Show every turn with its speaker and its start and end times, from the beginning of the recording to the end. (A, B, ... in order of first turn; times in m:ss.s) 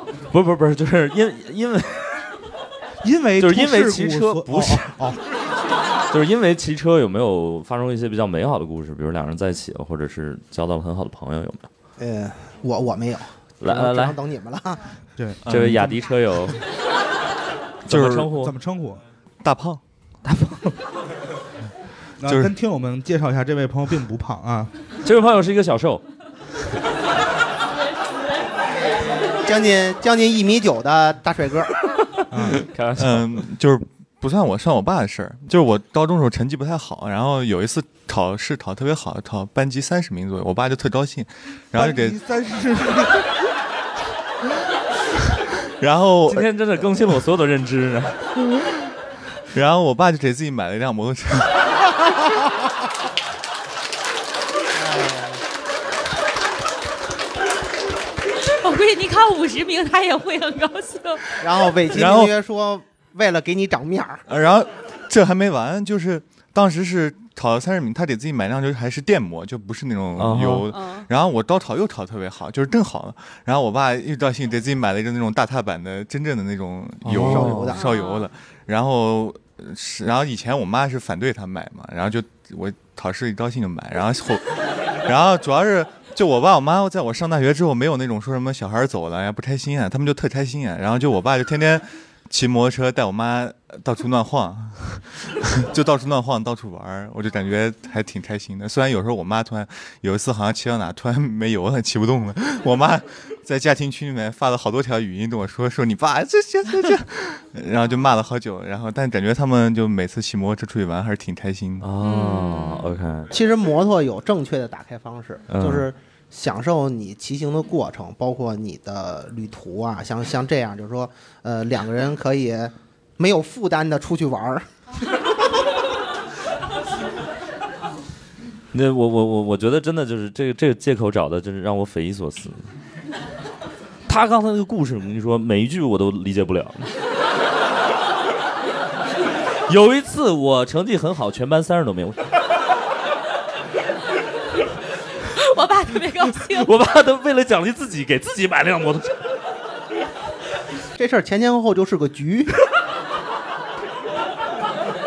0:00.3-0:02.3 A
0:03.0-0:05.2 B
0:03.4-0:05.1 A
0:06.1-0:11.7 A
0:12.0-0:14.8 C
0:13.6-0:14.2 A
0:15.2-0:16.0 B
0:15.5-0:15.8 D
0:15.5-0:16.6 A
0:17.8-0:18.5 A
0:17.9-0:18.3 D
0:17.9-0:19.0 B
0:19.4-0:19.8 D
0:20.3-0:20.5 B
0:22.2-0:24.7 B
0:22.2-0:22.5 D
0:25.0-0:26.0 A
0:28.8-0:31.8 C
0:32.3-0:32.7 B
0:32.4-0:33.4 A
0:33.0-0:42.2 D
0:41.7-0:43.3 B
0:45.8-0:46.5 D
0:46.3-0:48.2 A
0:49.5-0:51.7 D
0:54.8-0:55.4 C
0:58.6-1:01.4 E
1:01.4-1:04.2 C
1:01.9-1:02.3 D
1:04.3-1:51.9 D
1:10.2-1:10.7 A
1:10.7-1:11.1 E
1:17.0-1:17.7 A
1:17.1-1:17.9 C
1:17.8-1:18.3 E
1:51.8-1:53.3 A
1:52.0-1:52.9 E
1:53.3-2:04.7 C
1:55.5-1:55.8 A
2:08.7-2:12.7 A
2:14.1-2:16.9 A
2:19.7-2:22.3 A
2:25.4-2:26.7 E
2:26.3-2:29.2 A
2:31.0-2:32.6 C